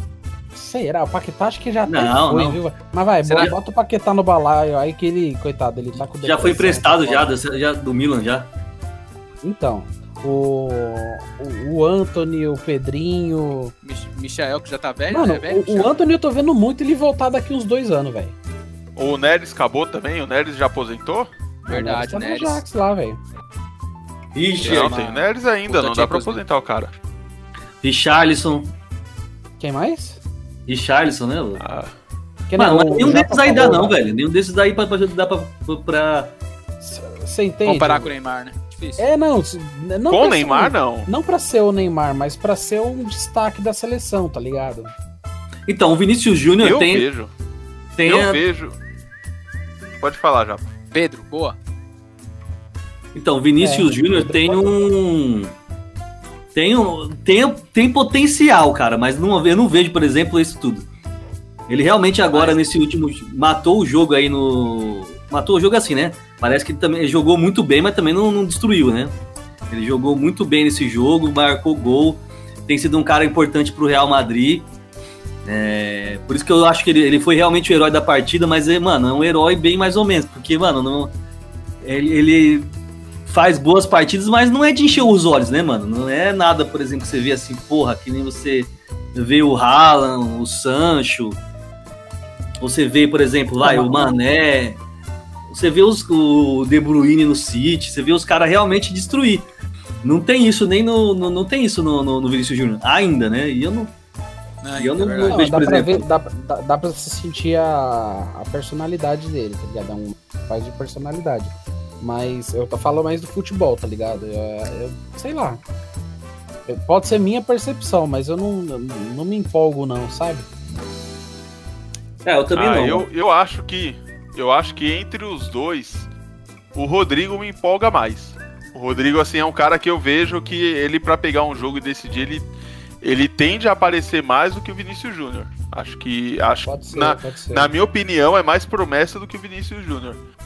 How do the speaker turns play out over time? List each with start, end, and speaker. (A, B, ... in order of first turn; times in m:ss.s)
0:00.5-0:07.3 A
0:01.9-0:02.6 B
0:03.2-0:03.5 C
0:06.2-0:08.5 B
0:09.4-0:13.7 A
0:13.8-0:15.9 C
0:15.1-0:18.4 A
0:19.0-0:21.3 D
0:21.6-0:22.6 C
0:21.7-0:23.2 A
0:24.3-0:25.0 B
0:24.6-0:26.4 C
0:24.6-0:26.9 D
0:27.8-0:28.7 B
0:29.6-0:30.2 A
0:30.7-0:31.6 B
0:31.6-0:31.9 D
0:32.5-0:34.0 A
0:32.6-0:36.3 B
0:36.8-0:38.1 A
0:37.6-0:39.1 C
0:39.0-0:44.9 A
0:40.1-0:41.1 D
0:45.7-0:47.1 B
0:46.6-0:47.3 D
0:48.0-0:48.4 B
0:48.0-0:48.8 D
0:50.0-0:50.6 D
0:50.9-0:51.6 C
0:53.1-0:55.5 B
0:53.6-0:54.7 A
0:56.6-1:00.9 B
1:01.7-1:09.2 B
1:02.3-1:02.7 C
1:09.7-1:14.7 B
1:15.4-1:21.1 B
1:21.8-1:22.7 B
1:23.3-1:31.4 B
1:32.6-1:34.8 B
1:33.6-1:34.2 A
1:35.5-1:39.5 B
1:40.0-1:43.9 B
1:44.6-1:45.8 C
1:44.8-1:46.1 B
1:45.3-1:55.6 A
1:56.7-2:00.5 A
2:02.2-2:03.1 B
2:02.6-2:06.1 D
2:06.8-2:12.4 D
2:13.0-2:20.2 D
2:16.6-2:17.7 A